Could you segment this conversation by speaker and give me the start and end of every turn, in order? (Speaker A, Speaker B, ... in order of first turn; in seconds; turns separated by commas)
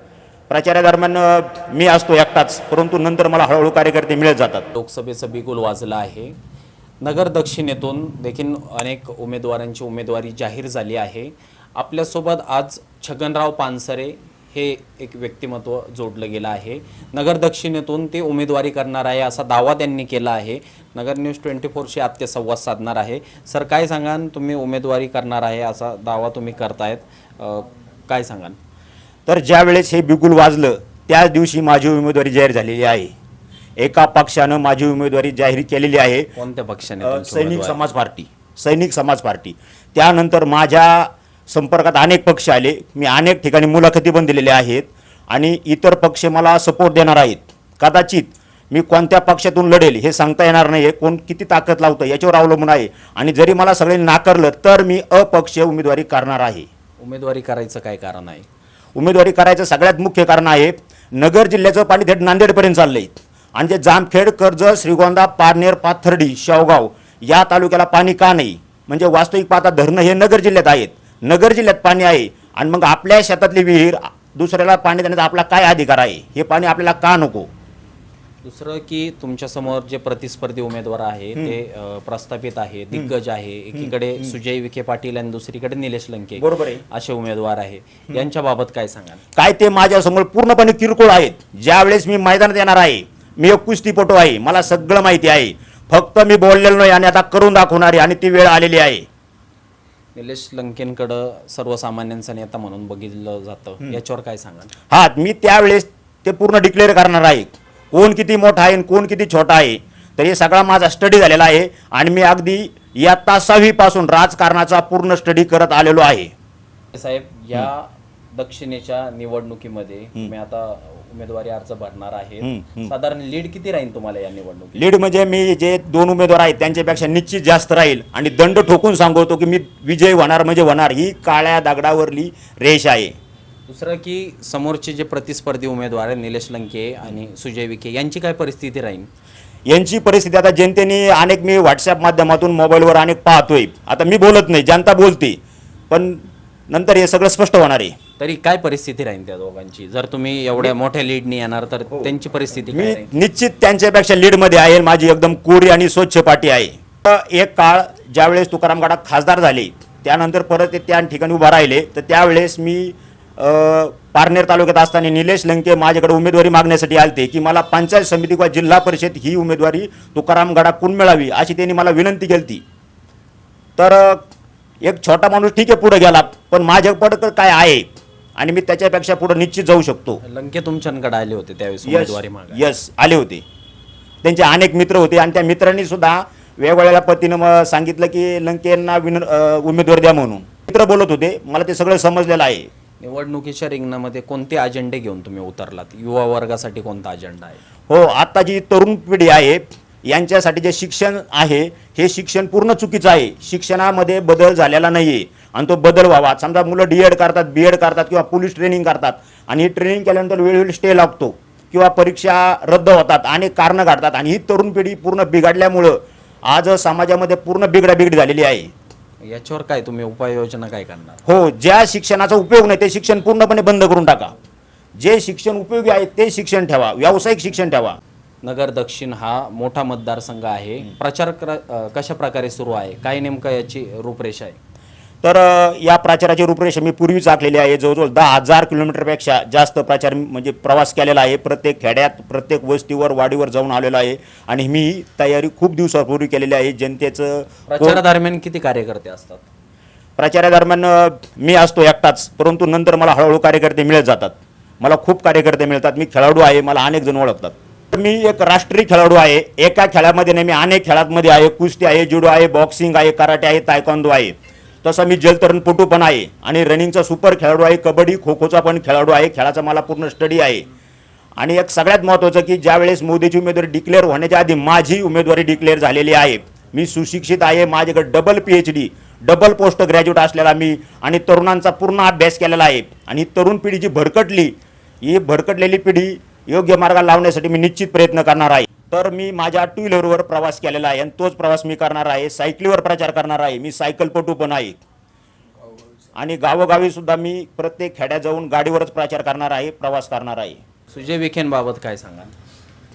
Speaker A: 0.5-4.7, Speaker B: 4.7-6.3, Speaker B: 7.0-28.6, Speaker A: 29.2-33.1, Speaker A: 33.8-36.3, Speaker B: 36.4-37.8, Speaker A: 37.0-56.7, Speaker B: 57.0-58.5, Speaker A: 59.0-77.5, Speaker B: 78.4-89.2, Speaker A: 86.4-86.8, Speaker A: 89.3-99.0, Speaker B: 100.1-104.7, Speaker A: 104.9-116.3, Speaker B: 116.9-124.8, Speaker A: 122.4-122.9, Speaker A: 124.8-133.2, Speaker B: 133.7-139.1, Speaker A: 139.7-145.4, Speaker A: 145.9-147.9, Speaker B: 148.2-153.1, Speaker A: 152.7-172.6, Speaker A: 173.8-174.2, Speaker A: 174.8-180.2, Speaker B: 180.2-182.6, Speaker A: 181.8-183.4, Speaker A: 184.2-192.7, Speaker B: 193.0-197.6, Speaker A: 197.9-218.7, Speaker B: 219.2-221.2, Speaker A: 221.2-224.3, Speaker A: 225.0-228.0, Speaker B: 228.4-234.6, Speaker A: 235.2-248.0, Speaker B: 247.7-249.4, Speaker A: 250.2-270.7, Speaker A: 271.4-294.8, Speaker A: 296.1-300.6, Speaker B: 300.9-302.3